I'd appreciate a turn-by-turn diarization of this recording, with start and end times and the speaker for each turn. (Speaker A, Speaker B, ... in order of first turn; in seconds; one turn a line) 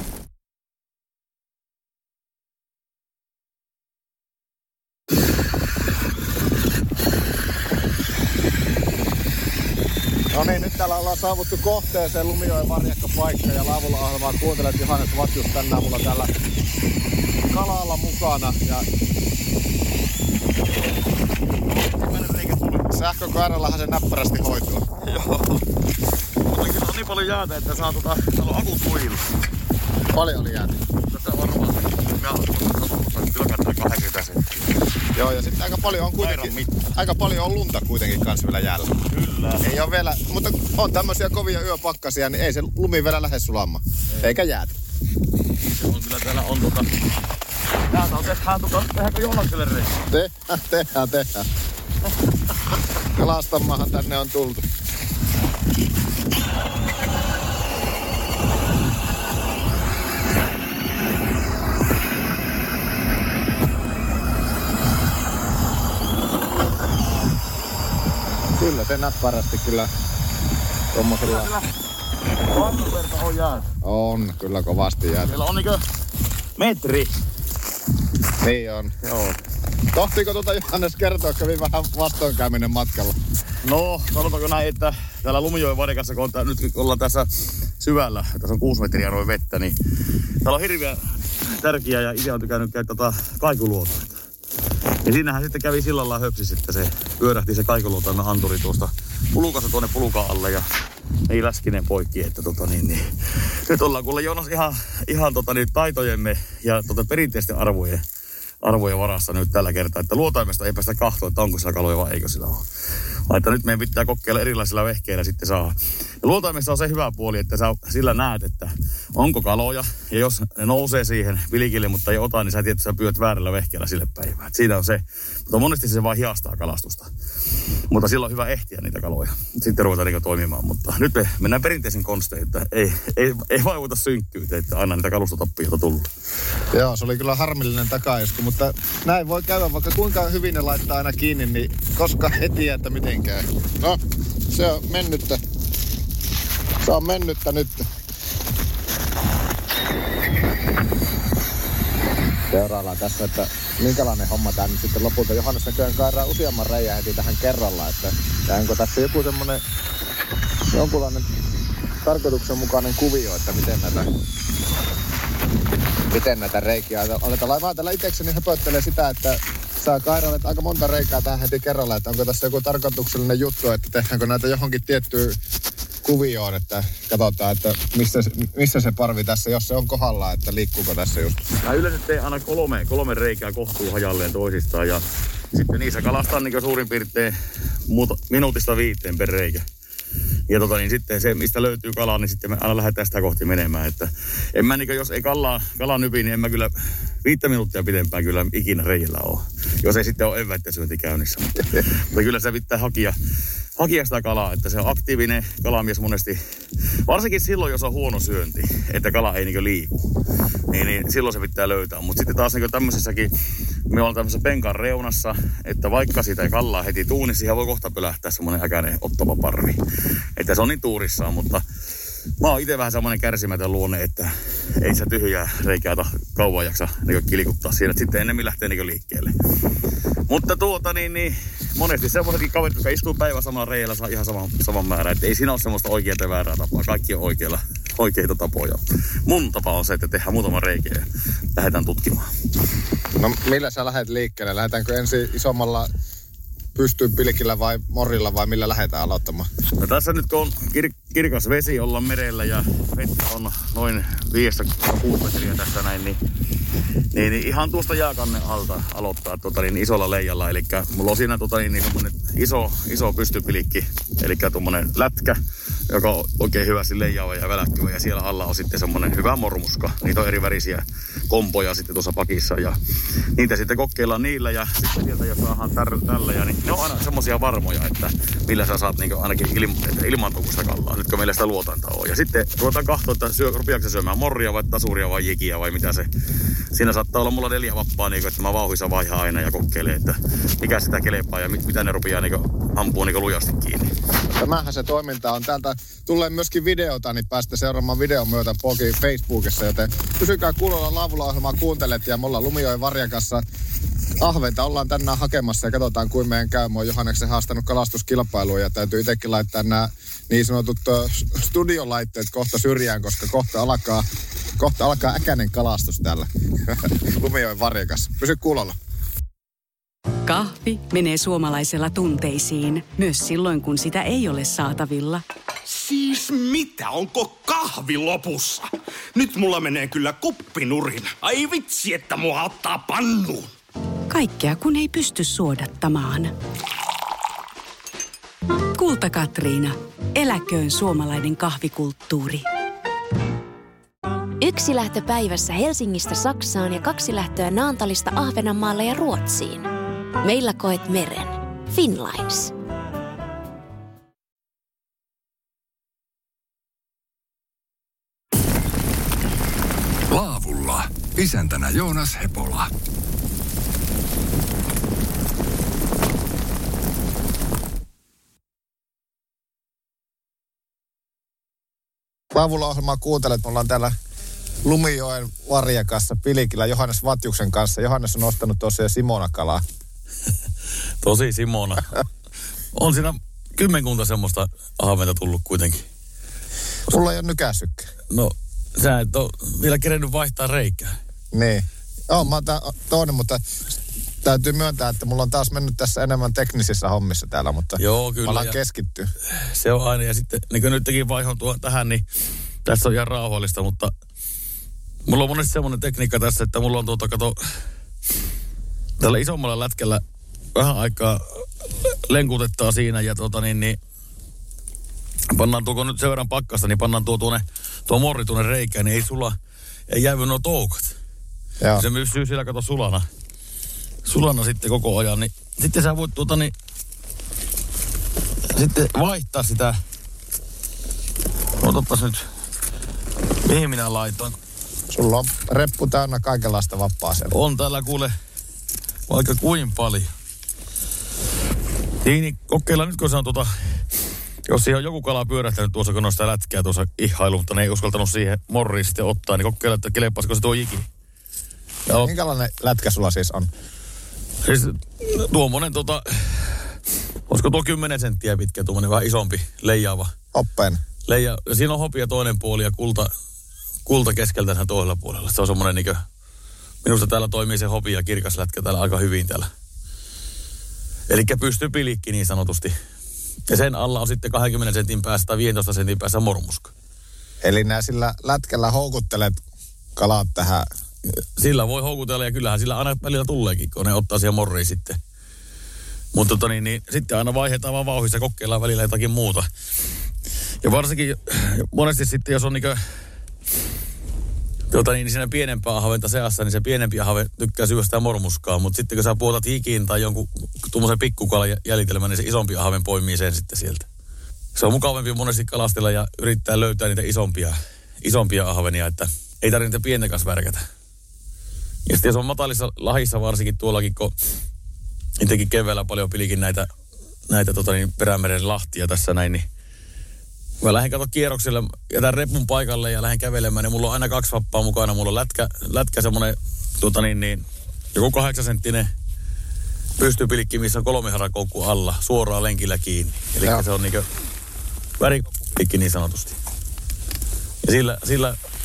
Speaker A: 10.3-16.3
Speaker A: 17.5-18.9
Speaker B: 21.8-22.9
Speaker A: 22.9-24.9
Speaker B: 25.0-25.6
Speaker B: 26.5-29.3
Speaker A: 30.1-30.8
Speaker B: 31.1-34.7
Speaker A: 35.1-38.9
Speaker B: 36.2-36.6
Speaker B: 39.1-39.6
Speaker A: 39.6-44.7
Speaker B: 45.7-46.9
Speaker B: 47.9-50.0
Speaker A: 50.1-51.5
Speaker A: 53.2-54.6
Speaker A: 68.6-69.9
Speaker A: 70.9-71.5
Speaker B: 71.2-71.7
Speaker B: 72.5-73.7
Speaker A: 73.8-75.4
Speaker B: 75.2-75.8
Speaker B: 76.6-77.1
Speaker A: 78.4-78.9
Speaker B: 79.0-79.4
Speaker A: 79.9-83.2
Speaker B: 83.6-87.3
Speaker B: 87.8-89.8
Speaker B: 90.4-91.0
Speaker B: 91.5-94.2
Speaker B: 95.0-100.7
Speaker B: 101.3-103.1
Speaker B: 103.7-108.0
Speaker B: 108.6-112.7
Speaker B: 113.3-127.1
Speaker B: 127.9-136.1
Speaker A: 136.7-144.0
Speaker A: 144.5-145.4
Speaker A: 146.8-147.8
Speaker A: 152.5-159.6
Speaker A: 160.7-161.3
Speaker A: 162.0-164.1
Speaker A: 166.1-175.4
Speaker A: 176.0-181.4
Speaker B: 181.6-187.3
Speaker B: 187.9-189.6
Speaker B: 190.5-196.7
Speaker B: 197.2-203.1
Speaker B: 203.8-206.4
Speaker B: 207.1-209.9
Speaker B: 210.7-213.3
Speaker B: 213.9-219.8
Speaker B: 220.4-221.6
Speaker B: 222.4-229.3
Speaker B: 230.3-242.3
Speaker A: 243.2-245.9
Speaker A: 246.8-249.5
Speaker B: 249.8-256.2
Speaker B: 257.1-272.8
Speaker B: 273.4-286.1
Speaker B: 286.7-293.9
Speaker A: 294.4-303.4
Speaker A: 304.2-314.1
Speaker A: 314.6-318.8
Speaker C: 320.2-325.2
Speaker D: 325.7-333.5
Speaker C: 334.1-336.3
Speaker C: 338.8-342.5
Speaker E: 344.4-349.7
Speaker E: 350.2-352.5
Speaker F: 360.1-362.7
Speaker A: 372.3-373.9
Speaker A: 374.6-379.6
Speaker B: 381.0-381.9
Speaker B: 382.7-385.9
Speaker A: 386.9-387.9
Speaker B: 388.1-390.9
Speaker A: 391.3-393.4
Speaker A: 394.2-399.1
Speaker B: 397.8-398.6
Speaker B: 399.4-402.0
Speaker B: 402.7-403.9
Speaker B: 405.1-407.4
Speaker B: 409.0-410.0
Speaker B: 410.6-413.8
Speaker B: 415.3-419.4
Speaker B: 419.9-420.9
Speaker B: 421.8-423.1
Speaker B: 424.1-426.5
Speaker B: 428.5-429.8
Speaker B: 431.6-432.2
Speaker B: 433.4-434.4
Speaker A: 434.9-437.4
Speaker B: 437.3-438.1
Speaker B: 439.1-440.1
Speaker B: 442.0-443.5
Speaker B: 444.5-450.9
Speaker A: 452.0-453.5
Speaker B: 454.4-456.6
Speaker B: 457.3-460.1
Speaker A: 460.3-460.8
Speaker B: 461.1-463.1
Speaker B: 463.9-466.0
Speaker B: 466.8-469.5
Speaker B: 471.1-472.7
Speaker B: 473.5-476.7
Speaker A: 477.4-479.4
Speaker A: 480.0-480.7
Speaker B: 481.1-485.0
Speaker B: 486.1-489.5
Speaker B: 490.6-492.8
Speaker B: 494.7-503.9
Speaker B: 504.6-510.6
Speaker B: 511.9-514.1
Speaker B: 515.2-516.7
Speaker B: 517.3-519.5
Speaker B: 520.6-527.4
Speaker B: 528.0-528.9
Speaker B: 530.0-534.0
Speaker B: 535.0-536.4
Speaker B: 537.6-538.4